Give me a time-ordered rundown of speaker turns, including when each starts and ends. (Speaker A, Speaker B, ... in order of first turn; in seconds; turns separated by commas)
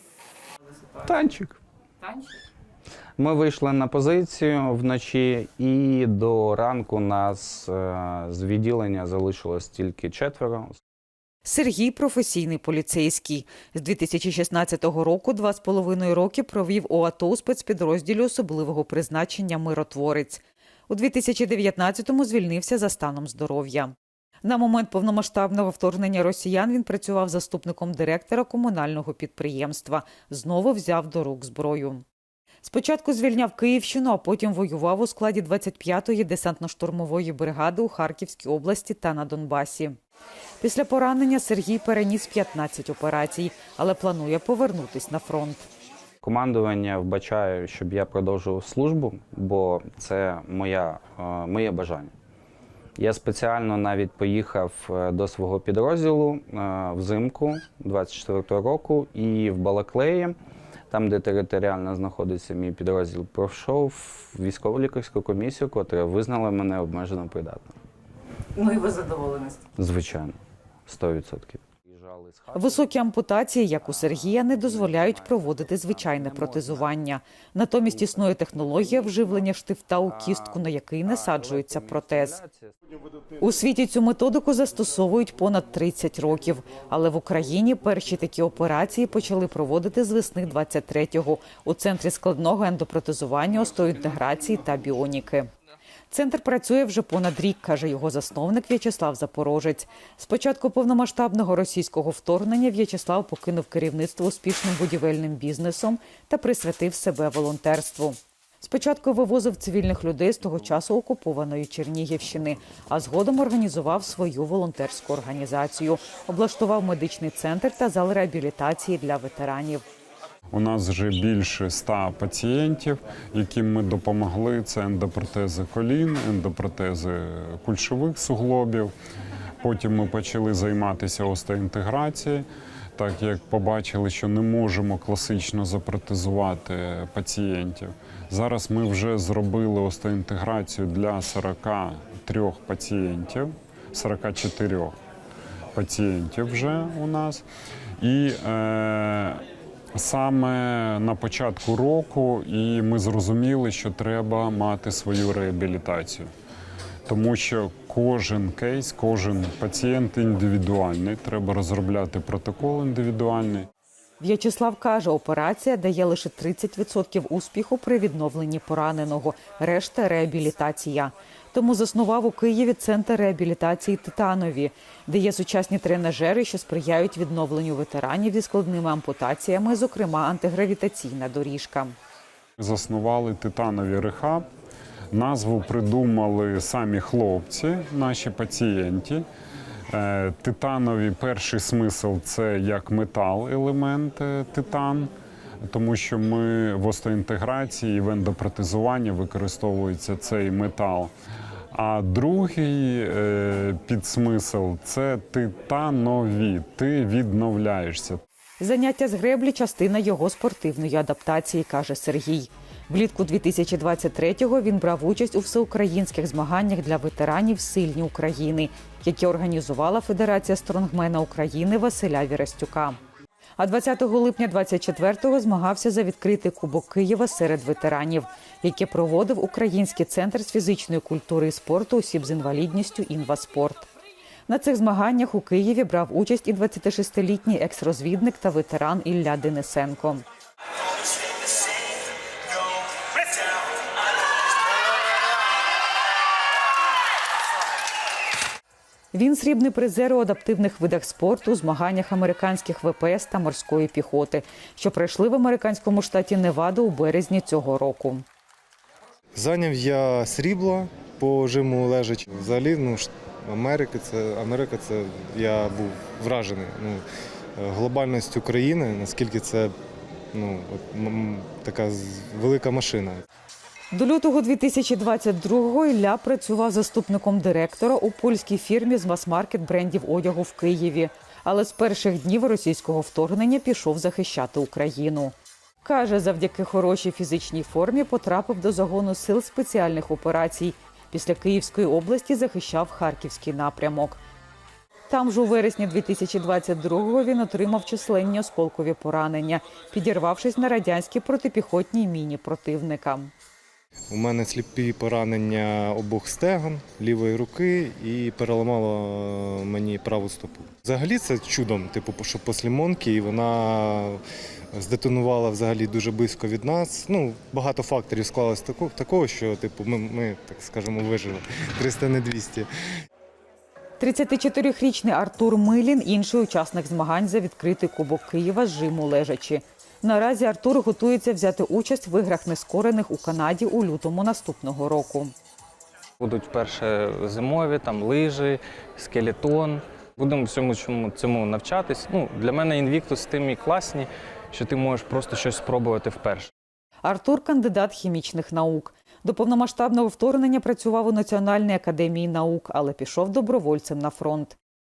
Speaker A: 1.0-1.6, Speaker A: 3.2-10.8, Speaker B: 11.4-32.0, Speaker B: 32.6-40.0, Speaker B: 40.6-45.7, Speaker A: 46.2-52.1, Speaker A: 53.0-60.4, Speaker A: 60.9-67.8, Speaker B: 68.5-69.6, Speaker A: 69.8-72.8, Speaker B: 72.5-82.4, Speaker A: 74.1-76.9, Speaker A: 80.1-82.7, Speaker B: 83.4-95.5, Speaker B: 96.1-119.8, Speaker C: 120.5-128.9, Speaker C: 129.6-132.4, Speaker C: 133.0-144.9, Speaker C: 145.7-147.4, Speaker C: 148.0-149.4, Speaker C: 149.9-156.3, Speaker C: 157.1-163.7, Speaker B: 164.2-181.9, Speaker C: 182.6-184.4, Speaker C: 185.1-189.2, Speaker C: 189.9-195.1, Speaker C: 195.7-201.1, Speaker C: 201.7-208.2, Speaker B: 208.6-223.0, Speaker B: 223.6-233.9, Speaker B: 234.5-240.2, Speaker B: 249.1-258.2, Speaker D: 259.4-267.0, Speaker D: 267.6-269.7, Speaker D: 270.3-273.2, Speaker B: 273.9-294.2, Speaker B: 295.1-303.3, Speaker D: 304.1-314.2, Speaker D: 314.7-322.7, Speaker B: 324.0-335.3, Speaker E: 336.2-346.5, Speaker B: 347.0-354.6